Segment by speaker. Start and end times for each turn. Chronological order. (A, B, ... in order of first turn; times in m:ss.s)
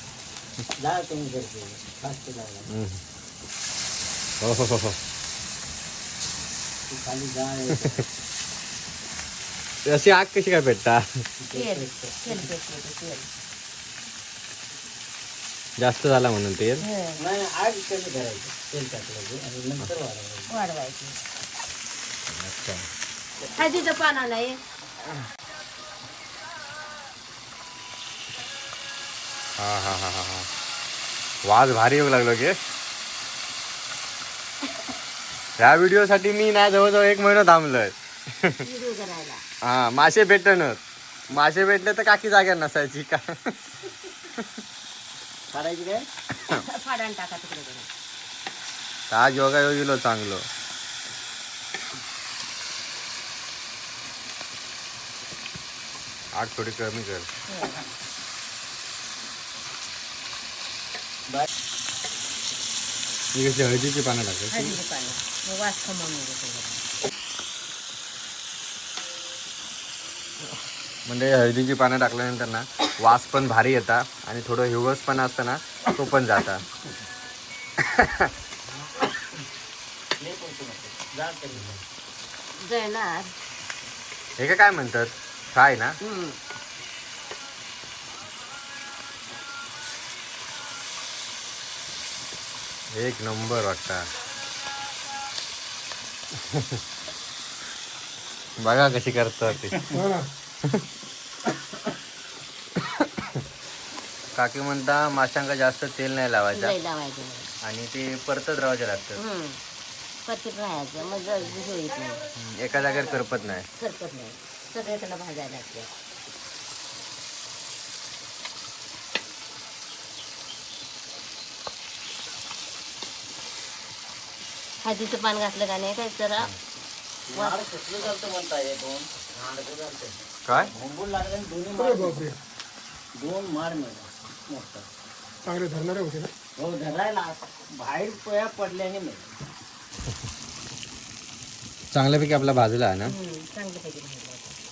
0:00.8-0:02.7 A
0:02.7-0:03.0 B
0:04.4-0:05.0 B
0:06.9-0:08.0 A
0:09.8-0:11.1 B
0:11.4-0:12.5 A
0:11.5-0:13.3 C
0:15.8-0:16.8 B
0:16.8-0:17.2 C
0:17.2-0:20.5 A
0:20.5-0:21.2 C
0:22.3-0:22.9 B
0:23.6-0:24.6 C
0:29.6-0:30.5 B
0:31.4-0:32.6 B
0:35.6-0:38.6 B
0:38.6-0:39.4 C
0:39.6-0:43.6 B
0:45.5-0:46.0 A
0:46.6-0:47.9 C
0:49.1-0:50.4 B
0:56.3-0:57.3 B
0:57.5-0:57.8 C
1:03.3-1:04.8 B
1:04.5-1:06.8 C
1:10.5-1:16.6 B
1:17.8-1:18.3 B
1:18.7-1:19.2 A
1:20.2-1:21.8 A
1:22.6-1:23.3 C
1:24.4-1:26.0 B
1:26.0-1:26.4 C
1:32.9-1:34.1 B
1:36.4-1:36.8 B
1:38.6-1:39.8 B
1:39.9-1:40.3 D
1:44.3-1:46.7 B
1:46.5-1:47.5 C
1:47.6-1:49.2 B
1:49.2-1:49.6 C
1:50.2-1:52.2 C
1:51.0-1:53.5 A
1:52.4-1:53.7 B
1:53.8-1:55.9 C
2:04.8-2:06.5 C
2:07.3-2:10.2 A
2:07.3-2:07.6 C
2:10.7-2:12.2 A
2:11.7-2:12.4 D
2:13.1-2:14.8 A
2:15.4-2:16.3 D
2:16.6-2:19.2 A
2:21.9-2:23.1 B
2:23.0-2:24.5 C